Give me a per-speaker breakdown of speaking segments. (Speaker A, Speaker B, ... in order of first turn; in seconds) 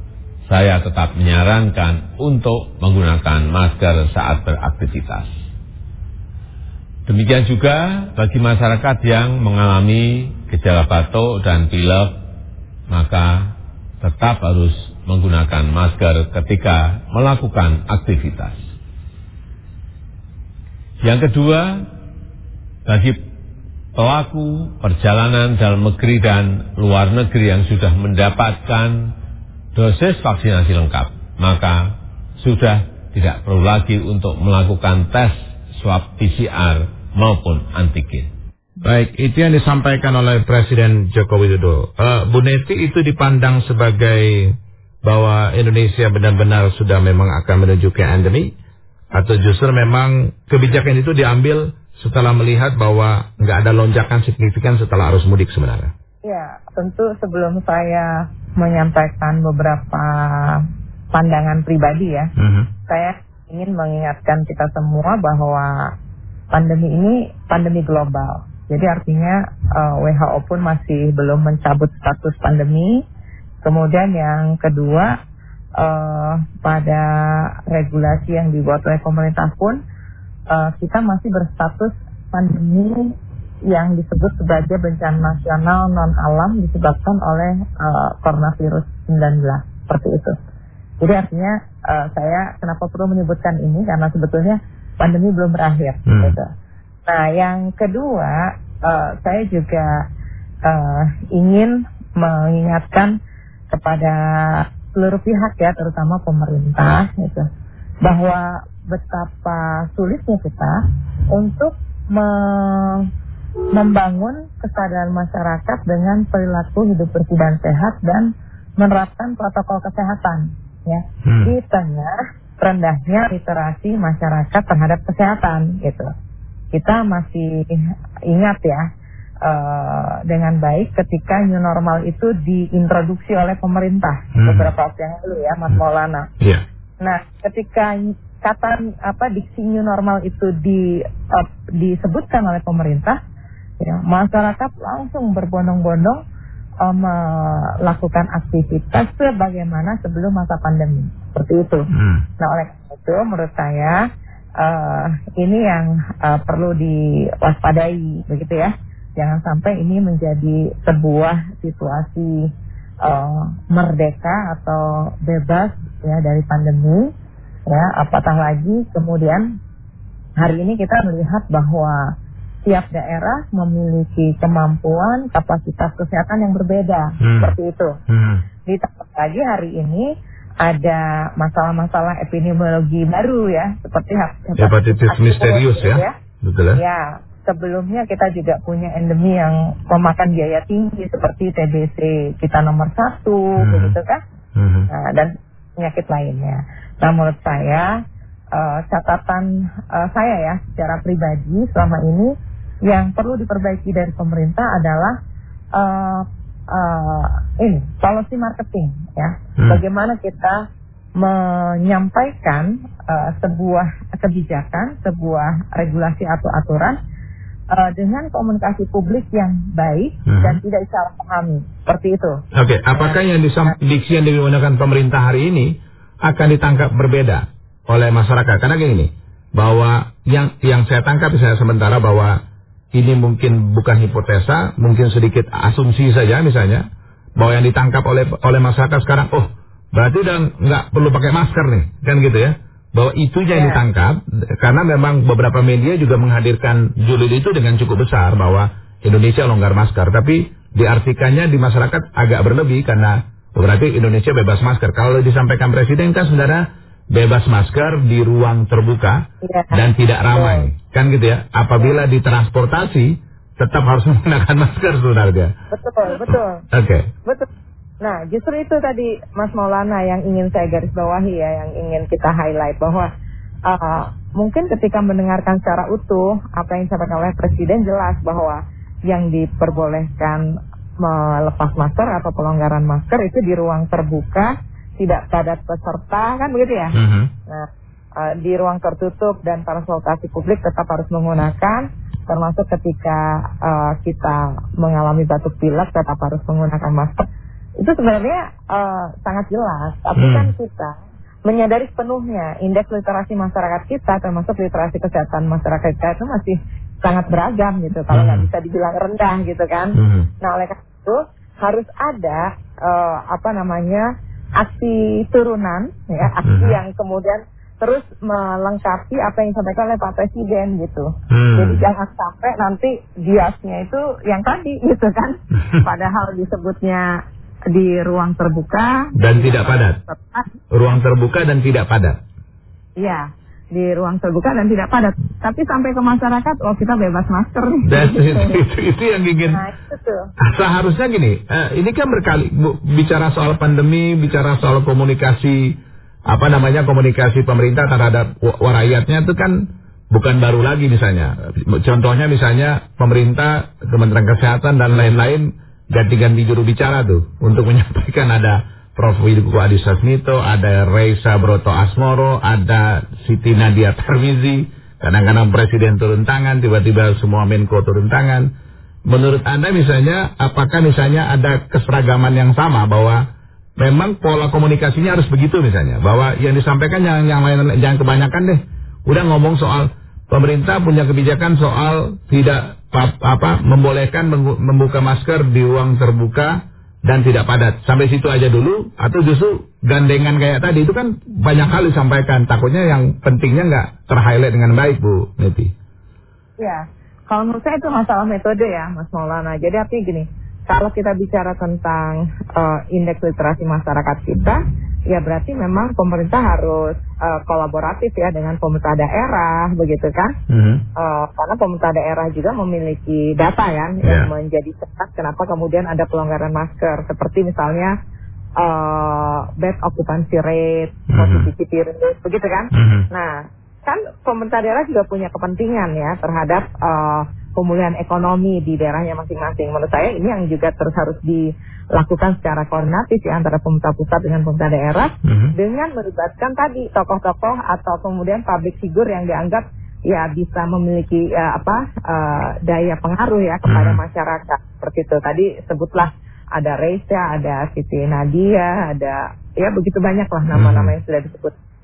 Speaker A: 0.5-5.3, 7.1-12.1, 12.9-18.6, 21.0-21.8, 22.9-23.2, 23.9-29.1, 29.8-38.3
Speaker B: 38.8-48.5, 49.1-55.9, 62.4-62.7, 96.1-96.4, 121.2-121.5, 134.4-134.7, 151.9-152.2, 177.2-177.6, 178.1-178.4, 184.6-186.8, 193.6-194.0, 194.6-194.9, 220.3-220.6, 222.5-232.4, 232.9-236.9, 237.4-265.5, 266.3-267.1, 286.9-287.3, 300.2-300.5, 308.1-308.5, 310.0-310.3, 316.4-316.8, 321.3-321.9, 329.2-330.0, 330.7-332.2, 337.9-339.6, 340.4-368.5, 369.1-373.3, 373.8-395.7, 410.5-410.8, 414.0-414.3, 421.1-421.5, 422.7-423.1, 435.2-435.5, 443.7-444.0, 450.5-450.9
Speaker C: 56.2-62.3, 62.9-65.9, 66.5-73.0, 73.6-75.1, 75.8-79.8, 80.5-83.2, 83.7-90.3, 91.0-96.5, 97.1-100.0, 100.7-103.2, 103.7-107.5, 108.0-110.8, 111.3-113.1, 113.7-126.1, 126.7-128.8, 129.4-136.3, 137.0-143.2, 143.8-146.2, 146.8-151.8, 152.4-154.0, 154.6-162.5, 163.0-167.1, 167.7-169.5, 170.4-172.1, 172.7-177.9, 178.7-180.1, 180.6-186.1, 186.8-194.2, 194.9-197.9, 198.5-202.3, 202.9-205.2, 205.7-210.6, 211.2-217.0, 217.7-222.4, 222.9-223.8, 243.5-243.8, 259.4-260.7, 265.7-266.6, 268.0-273.1, 273.7-280.4, 281.0-286.9, 287.5-297.2, 297.8-300.9, 301.5-314.1, 314.6-330.5, 333.0-338.6, 339.5-340.3, 396.6-410.3, 411.0-417.9, 418.6-451.5